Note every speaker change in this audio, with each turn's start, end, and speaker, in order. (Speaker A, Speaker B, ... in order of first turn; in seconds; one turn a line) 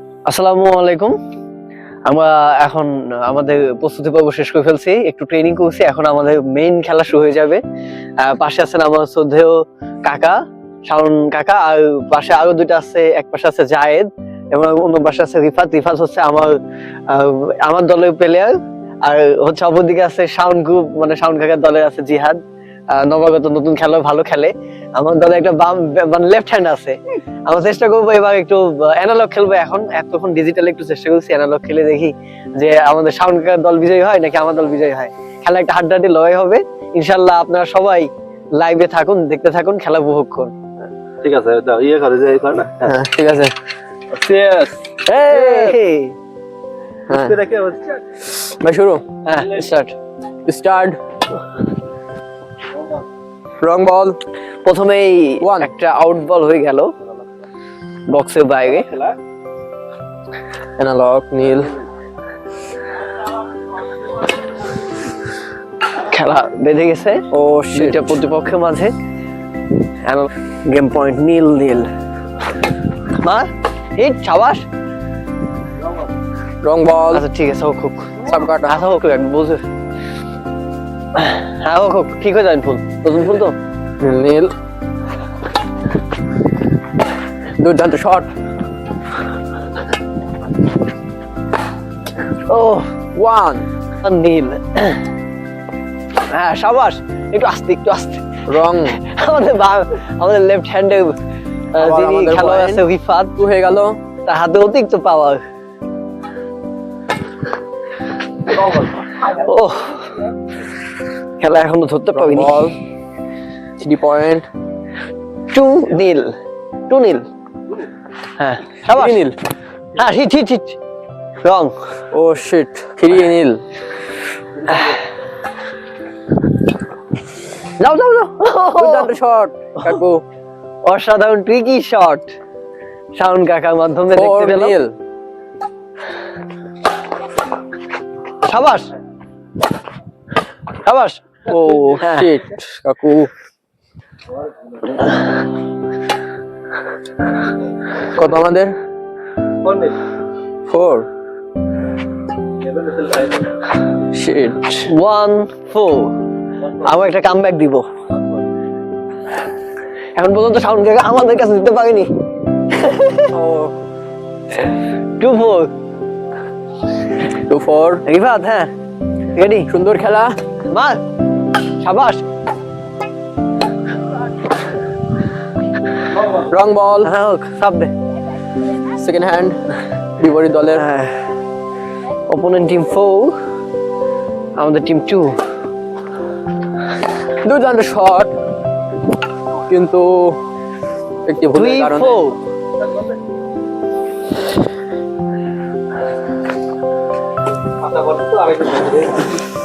Speaker A: 0.3-1.2
Speaker A: 2.1-7.6
Speaker A: 8.2-16.6
Speaker A: 17.1-22.4
Speaker A: 22.9-40.5
Speaker B: 41.2-42.9
Speaker C: 42.8-43.5
Speaker B: 44.1-45.0
Speaker A: 45.1-46.2
Speaker C: 47.1-47.4
Speaker B: 47.1-48.0
Speaker C: 48.3-49.0
Speaker A: 49.2-50.0
Speaker C: 50.5-51.0
Speaker C: 53.6-54.2
Speaker A: 54.6-56.9
Speaker C: 55.4-55.7
Speaker A: 58.1-59.0
Speaker C: 60.8-61.8
Speaker A: 66.0-68.9
Speaker C: 67.3-68.2
Speaker A: 70.0-71.9
Speaker A: 73.1-74.7
Speaker C: 76.6-77.2
Speaker A: 77.1-79.6
Speaker C: 78.2-78.9
Speaker A: 81.1-83.6
Speaker C: 84.0-84.5
Speaker C: 87.6-88.3
Speaker A: 92.5-92.9
Speaker C: 93.2-93.7
Speaker A: 94.0-95.0
Speaker A: 96.3-98.3
Speaker C: 98.5-99.0
Speaker A: 98.9-101.2
Speaker A: 101.7-103.4
Speaker C: 101.8-102.9
Speaker C: 103.4-104.0
Speaker A: 104.2-105.4
Speaker A: 109.2-110.2
Speaker A: 111.4-112.7
Speaker C: 112.1-112.8
Speaker C: 113.8-114.5
Speaker A: 115.5-116.4
Speaker A: 116.9-117.3
Speaker A: 118.4-119.3
Speaker C: 118.9-119.4
Speaker A: 120.0-120.8
Speaker A: 121.4-121.8
Speaker C: 122.1-123.6
Speaker B: 124.7-124.9
Speaker A: 127.8-129.1
Speaker C: 128.8-130.2
Speaker A: 130.8-132.3
Speaker A: 133.2-134.8
Speaker C: 134.1-135.0
Speaker A: 138.4-138.9
Speaker A: 140.7-141.2
Speaker C: 141.5-143.3
Speaker A: 141.9-142.3
Speaker C: 148.0-148.8
Speaker B: 149.6-150.0
Speaker C: 150.7-151.1
Speaker B: 152.6-153.6
Speaker C: 154.1-154.9
Speaker A: 154.9-156.2
Speaker A: 156.8-157.9
Speaker A: 160.2-163.3
Speaker C: 163.3-163.8
Speaker A: 165.2-165.7
Speaker C: 167.5-168.0
Speaker A: 168.1-168.7
Speaker A: 169.3-169.7
Speaker C: 169.7-170.4
Speaker A: 170.7-171.0
Speaker A: 171.8-172.2
Speaker C: 176.4-177.1
Speaker A: 177.0-177.9
Speaker C: 178.9-179.6
Speaker C: 180.2-180.9
Speaker A: 180.7-181.2
Speaker A: 182.3-183.4
Speaker A: 184.6-185.4
Speaker C: 187.4-188.3
Speaker C: 189.7-190.4
Speaker C: 191.3-192.2
Speaker A: 191.5-192.4
Speaker B: 197.8-199.4